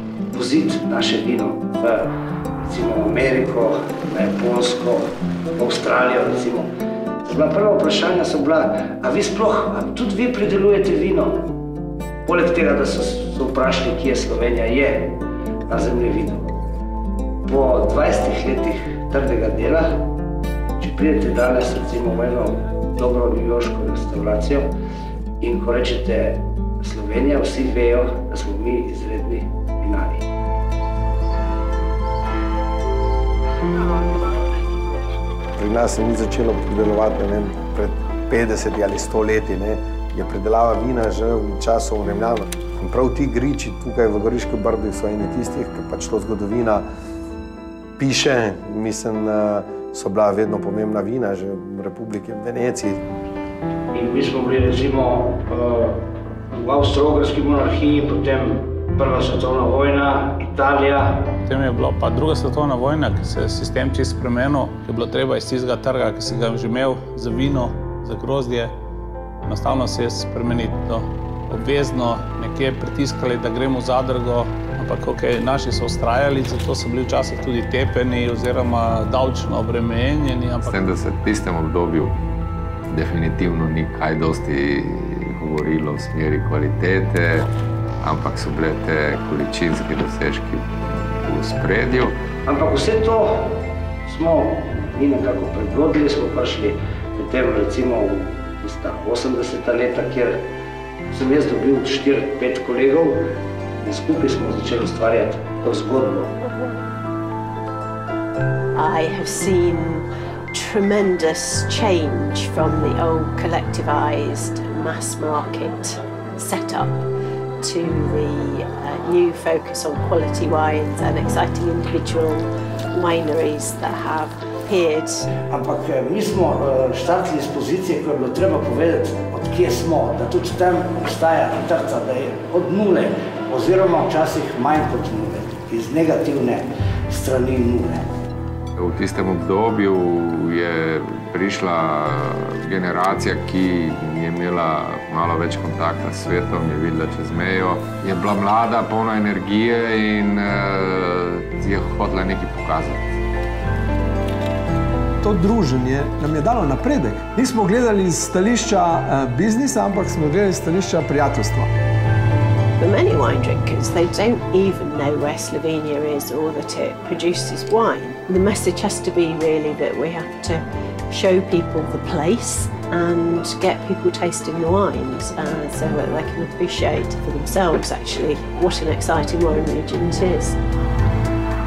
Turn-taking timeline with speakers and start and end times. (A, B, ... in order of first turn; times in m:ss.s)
0:00.3-0:02.1 A
0:02.6-0:06.7 A
0:07.2-0:11.5 A
0:12.2-0:16.5 A
0:17.4-0:20.1 A
0:20.8-0:24.7 A
0:25.4-0:30.2 A
0:35.6-0:46.8 B
0:48.0-0:53.0 B
0:53.9-0:56.0 A
0:56.5-1:01.3 A
1:01.4-1:08.7 C
1:09.4-1:20.8 C
1:20.6-1:22.2 D
1:22.9-1:27.5 D
1:28.0-1:32.1 D
1:32.4-1:40.4 A
1:41.1-1:43.2 A
1:43.8-1:46.3 A
1:48.8-1:57.0 E
1:57.6-2:05.2 E
2:05.5-2:18.0 A
2:18.8-2:33.1 D
2:35.2-2:41.7 F
2:42.8-3:00.6 E